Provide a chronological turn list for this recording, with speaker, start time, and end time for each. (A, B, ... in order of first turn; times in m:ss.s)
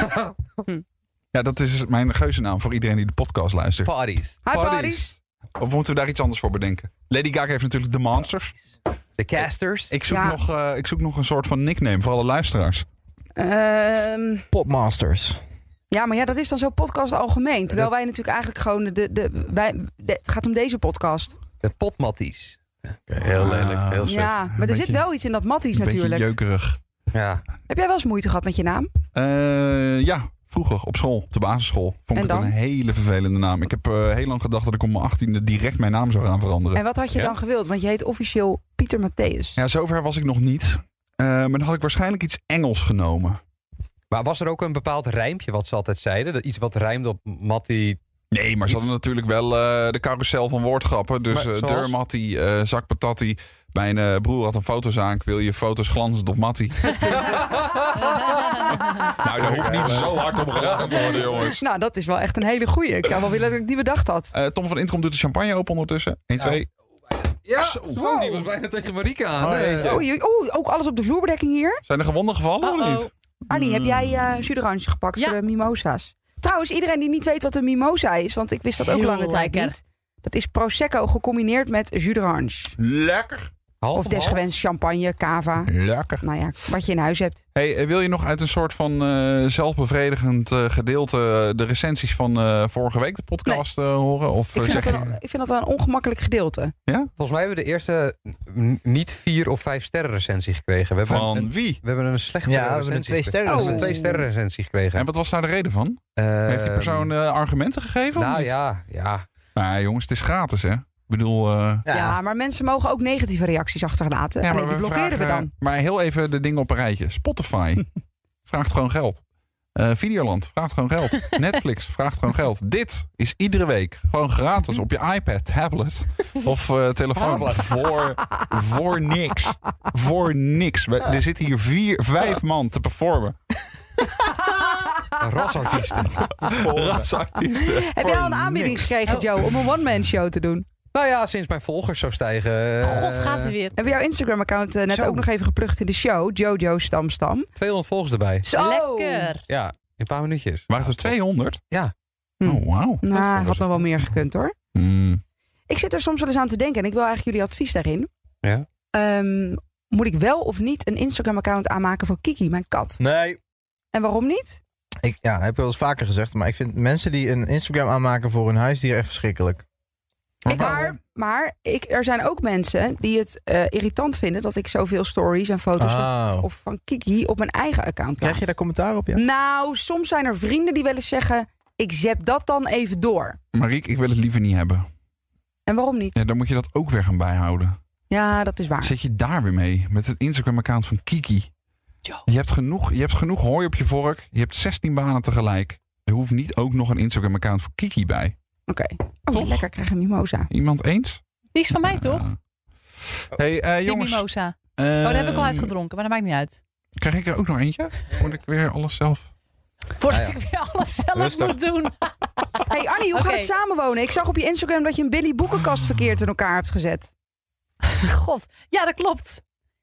0:01.3-0:03.9 A
0:03.8-0:04.4 B
0:04.4-0:05.1 C
0:04.4-0:08.6 A
0:09.2-0:09.9 B
0:09.9-0:12.8 A
0:10.1-0:10.4 C
0:13.4-0:14.5 C
0:14.5-0:15.4 D
0:15.9-0:21.4 C
0:21.6-0:24.3 B
0:23.2-0:25.0 A
0:24.0-0:26.3 C
0:25.7-0:26.8 A
0:27.1-0:27.4 B
0:27.7-0:28.9 C
0:29.1-0:36.8 A
0:32.1-0:32.5 C
0:36.7-0:39.6 C
0:39.6-0:43.4 A
0:44.1-0:48.0 B
0:48.3-0:57.3 A
0:51.3-0:51.9 B
0:57.1-0:58.2 B
0:58.2-0:59.0 E
0:59.0-1:01.6 A
0:59.4-1:00.1 B
1:00.6-1:01.4 B
1:01.5-1:04.3 C
1:04.3-1:06.7 A
1:07.4-1:09.9 B
1:07.6-1:08.2 A
1:07.9-1:08.4 C
1:09.4-1:10.0 A
1:09.8-1:11.8 C
1:11.8-1:14.5 A
1:12.6-1:13.1 E
1:13.5-1:22.8 C
1:18.8-1:19.8 E
1:22.8-1:23.5 A
1:23.8-1:24.4 B
1:23.9-1:25.7 C
1:25.7-1:26.2 A
1:26.2-1:27.4 C
1:27.5-1:35.2 A
1:34.5-1:36.7 C
1:34.6-1:34.9 E
1:37.2-1:45.1 B
1:41.1-1:41.8 A
1:42.4-1:44.0 D
1:43.4-1:44.2 C
1:44.9-1:48.5 A
1:46.2-1:47.1 B
1:48.2-1:49.2 B
1:49.6-1:51.8 A
1:51.8-1:52.2 D
1:51.9-1:55.5 C
1:54.4-1:57.8 A
1:58.5-1:59.2 A
1:59.8-2:13.4 A
2:07.2-2:07.6 B
2:14.5-2:15.1 C
2:15.2-2:16.5 B
2:16.4-2:19.5 A
2:17.6-2:20.6 C
2:20.9-2:23.5 B
2:22.8-2:23.9 E
2:23.8-2:27.5 C
2:24.9-2:25.3 B
2:27.6-2:28.4 B
2:28.4-2:29.3 C
2:28.5-2:29.4 E
2:29.5-2:31.1 B
2:30.7-2:31.6 A
2:32.4-2:34.5 C
2:32.4-2:33.9 A
2:34.7-2:35.2 A
2:35.7-2:38.1 C
2:38.9-2:43.0 C
2:43.0-2:43.4 D
2:43.9-2:44.6 C
2:45.0-2:49.6 D
2:50.4-2:50.9 D
2:50.5-2:51.0 A
2:50.5-2:58.5 C
2:55.8-2:56.5 D
2:58.2-2:59.2 D
2:59.1-3:03.4 C
3:03.5-3:04.9 A
3:05.7-3:06.2 C
3:06.1-3:07.8 A
3:08.1-3:09.0 C
3:08.8-3:11.5 A
3:12.2-3:18.3 A
3:18.7-3:20.5 C
3:19.3-3:19.6 A
3:20.5-3:21.2 A
3:21.5-3:22.2 E
3:21.9-3:22.3 A
3:23.2-3:24.2 A
3:23.8-3:26.6 E
3:24.8-3:25.7 A
3:27.0-3:29.3 A
3:30.0-3:33.5 E
3:30.1-3:30.4 D
3:31.1-3:31.6 D
3:32.7-3:37.1 C
3:38.0-3:39.4 E